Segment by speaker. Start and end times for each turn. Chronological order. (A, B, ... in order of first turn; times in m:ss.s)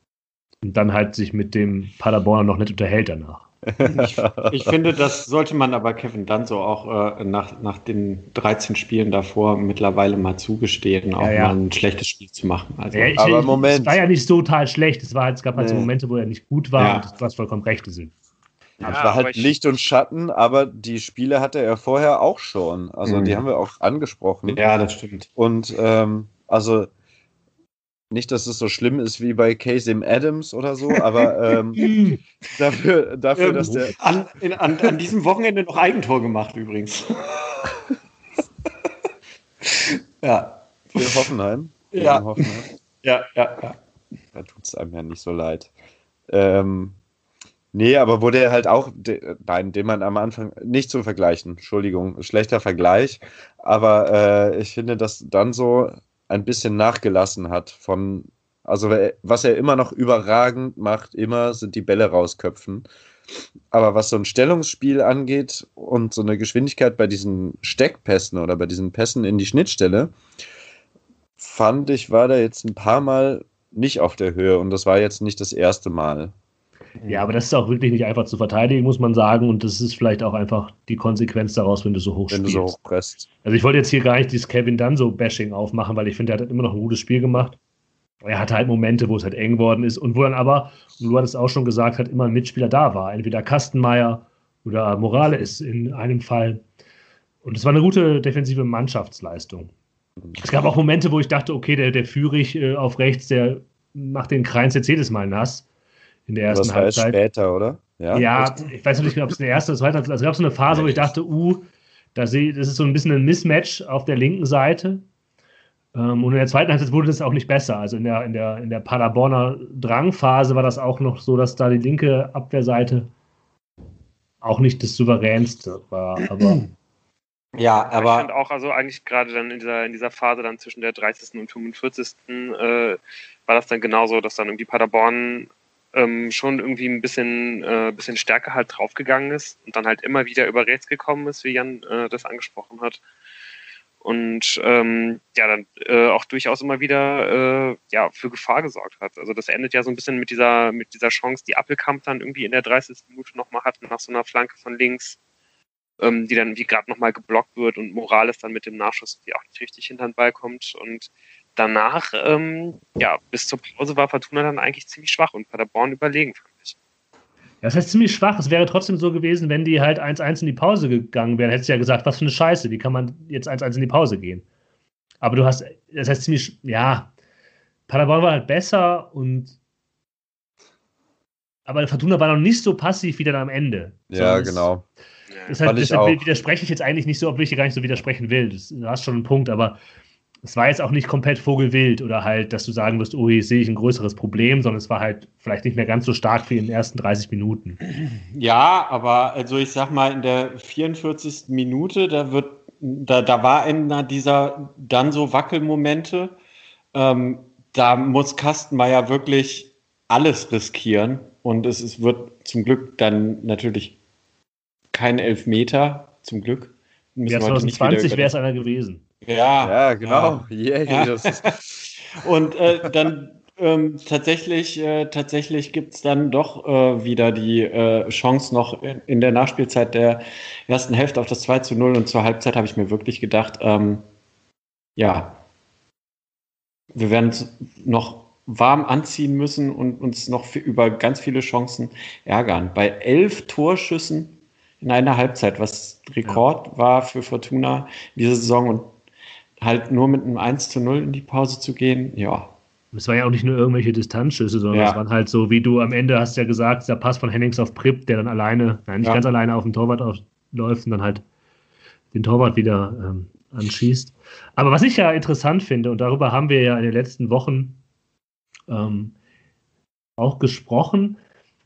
0:00.6-0:03.5 A
0:03.7-0:04.7 B
0:03.8-0:13.2 C
0:11.2-0:11.6 A
0:12.9-0:18.1 A
0:13.2-0:14.0 B
0:15.6-0:15.9 B
0:16.8-0:17.1 C
0:18.8-0:24.6 B
0:18.8-0:19.6 D
0:23.1-0:23.4 C
0:24.5-0:25.3 C
0:25.4-0:26.9 B
0:28.1-0:31.9 B
0:31.8-0:32.2 A
0:32.5-0:34.0 B
0:33.4-0:34.0 A
0:33.4-0:37.8 C
0:39.7-0:41.1 C
0:41.0-0:42.7 B
0:41.9-0:43.8 C
0:44.4-0:45.7 B
0:46.3-0:47.0 B
0:47.7-1:02.9 B
1:03.7-1:10.2 B
1:11.4-1:16.3 B
1:17.0-1:17.2 C
1:17.1-1:22.8 A
1:22.3-1:23.3 B
1:23.4-1:27.6 A
1:28.2-1:36.6 A
1:37.4-1:39.7 A
1:40.4-1:45.7 A
1:46.3-1:47.2 A
1:46.5-1:48.3 B
1:48.1-1:55.0 A
1:55.9-2:03.1 A
2:04.4-2:06.6 A
2:06.3-2:06.7 C
2:07.6-2:08.3 C
2:07.9-2:23.0 D
2:24.0-2:35.2 D
2:36.0-2:46.8 D
2:47.6-2:54.4 A
2:55.2-2:57.1 A
2:57.9-2:59.6 A
3:01.7-3:04.7 A
3:04.1-3:04.8 B
3:05.3-3:05.6 D
3:05.5-3:09.8 A
3:05.6-3:06.2 B
3:10.4-3:17.8 A
3:18.0-3:26.4 C
3:26.9-3:34.0 C
3:34.9-3:38.3 C
3:37.3-3:39.0 A
3:39.2-3:41.5 C
3:39.6-3:41.7 B
3:42.1-3:54.0 C
3:55.0-3:55.4 C
3:56.9-4:08.9 C
4:09.6-4:12.5 C
4:12.9-4:21.2 A
4:14.7-4:15.0 C
4:22.1-4:27.8 A
4:28.7-4:29.2 A
4:30.2-4:31.2 A